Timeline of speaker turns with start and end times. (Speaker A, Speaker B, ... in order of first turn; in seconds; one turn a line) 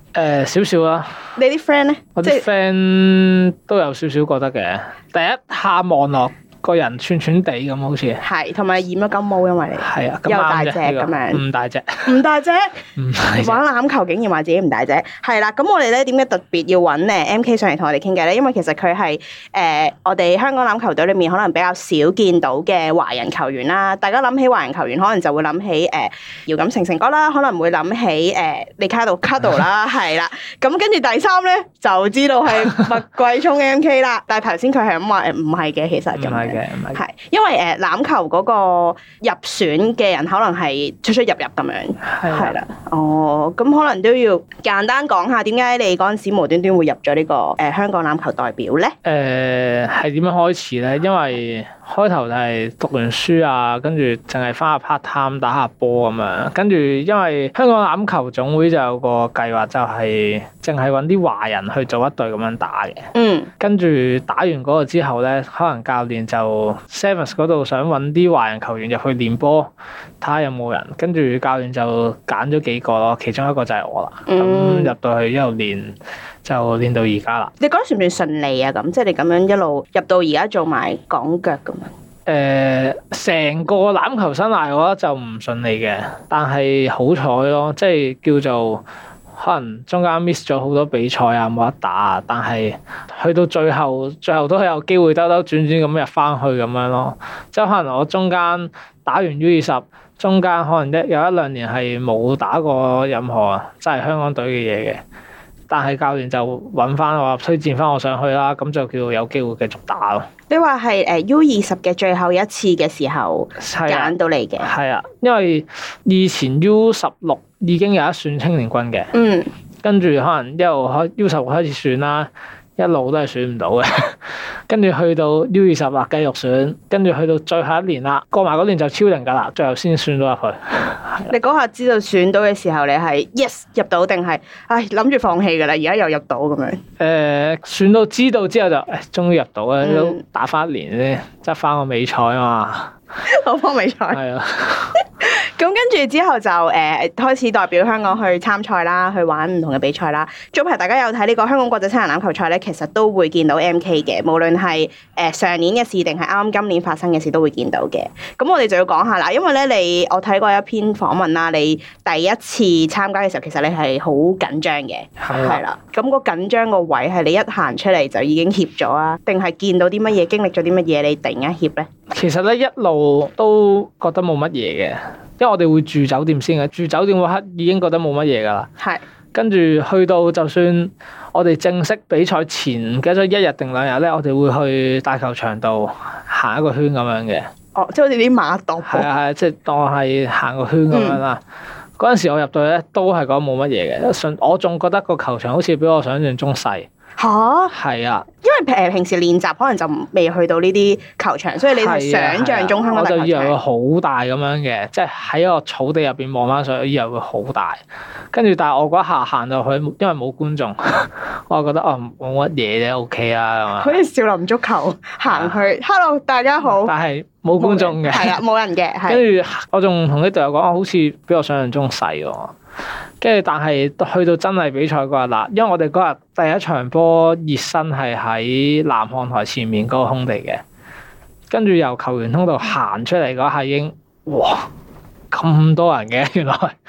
Speaker A: 0.1-1.2
Speaker B: 1.4-2.4
Speaker A: 2.1-8.2
Speaker B: 8.2-11.4
Speaker A: 9.8-12.2
Speaker B: 12.1-48.9
Speaker A: 13.0-13.6
Speaker A: 36.1-37.0
Speaker A: 42.0-42.6
Speaker A: 49.0-77.5
Speaker B: 63.1-63.5
Speaker B: 74.3-74.9
Speaker B: 77.6-81.9
Speaker A: 82.2-88.8
Speaker A: 89.3-105.0
Speaker A: 105.7-110.3
Speaker B: 110.5-114.7
Speaker A: 113.6-119.1
Speaker B: 119.1-119.5
Speaker A: 119.8-131.3
Speaker B: 131.3-136.8
Speaker A: 137.0-142.9
Speaker B: 139.8-140.2
Speaker B: 143.2-144.2
Speaker A: 144.1-144.9
Speaker B: 145.0-171.9
Speaker A: 165.2-165.6
Speaker A: 172.1-178.7
Speaker B: 178.8-179.0
Speaker A: 179.3-187.4
Speaker B: 187.7-189.1
Speaker A: 188.8-191.4
Speaker B: 190.9-191.2
Speaker A: 192.0-196.9
Speaker B: 197.2-197.7
Speaker A: 197.7-198.3
Speaker B: 198.4-203.6
Speaker A: 201.7-214.0
Speaker B: 213.8-216.9
Speaker A: 215.3-215.6
Speaker A: 216.8-218.4
Speaker B: 217.6-219.2
Speaker A: 219.1-222.5
Speaker A: 223.2-230.6
Speaker A: 231.5-234.7
Speaker A: 235.3-236.8